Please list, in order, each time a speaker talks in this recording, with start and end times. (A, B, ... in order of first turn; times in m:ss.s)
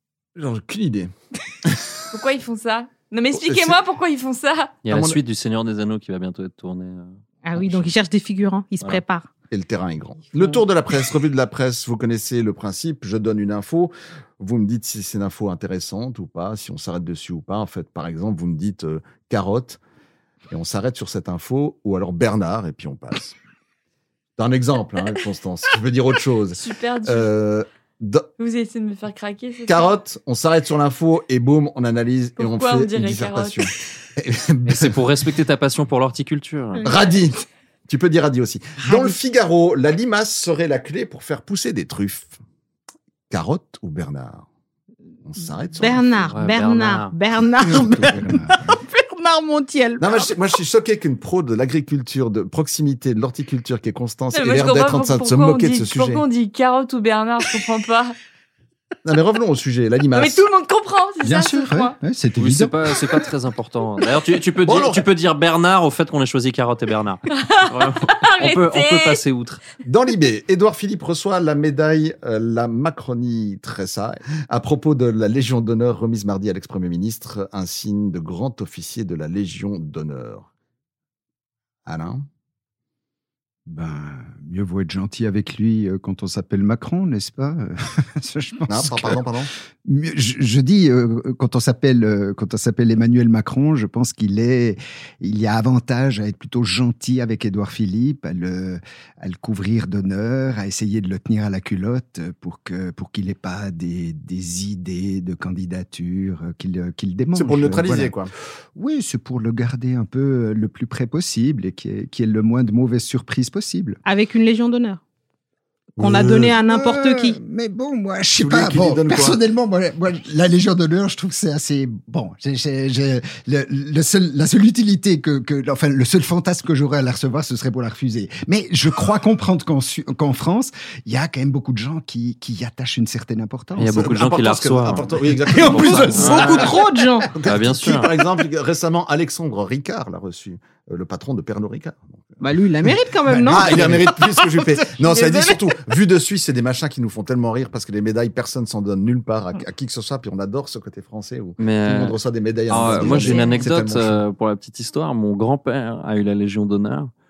0:00.4-0:01.9 A
0:02.1-0:04.8 B
0:03.3-0:03.7 A
0:04.8-0:07.9 C
0:04.9-0:05.2 A
0:07.4-0:09.3 D
0:09.5-0:19.8 A
0:20.5-0:23.4 A
0:24.4-0:28.3 A
0:26.6-0:27.3 B
0:28.4-0:29.9 B
0:29.7-0:35.0 A
0:32.4-0:33.7 B
0:34.6-0:36.8 C
0:36.8-0:42.3 A
0:38.8-0:39.2 D
0:43.3-0:44.4 A
0:45.2-0:46.3 A
0:45.8-0:50.3 D
0:46.3-0:47.1 C
0:47.7-0:48.6 E
0:50.0-0:56.2 A
0:54.3-0:58.1 B
0:59.0-1:00.4 A
1:00.1-1:02.0 B
1:01.2-1:02.8 E
1:02.4-1:09.6 C
1:04.6-1:05.0 A
1:07.3-1:09.2 B
1:09.8-1:20.5 A
1:21.8-1:22.2 A
1:23.6-1:29.2 E
1:28.7-1:29.5 A
1:29.8-1:48.1 E
1:47.3-1:48.3 A
1:48.8-1:54.0 E
1:54.0-1:55.0 D
1:56.0-1:57.4 D
1:56.0-1:56.5 A
1:56.6-2:14.0 E
1:58.4-1:59.4 A
2:13.8-2:15.0 C
2:13.8-2:22.4 A
2:15.5-2:17.3 D
2:15.7-2:16.7 C
2:17.4-2:18.1 C
2:22.4-2:25.6 D
2:23.2-2:24.1 E
2:23.5-2:34.2 A
2:31.6-2:32.2 C
2:32.7-2:37.1 C
2:32.8-2:33.7 D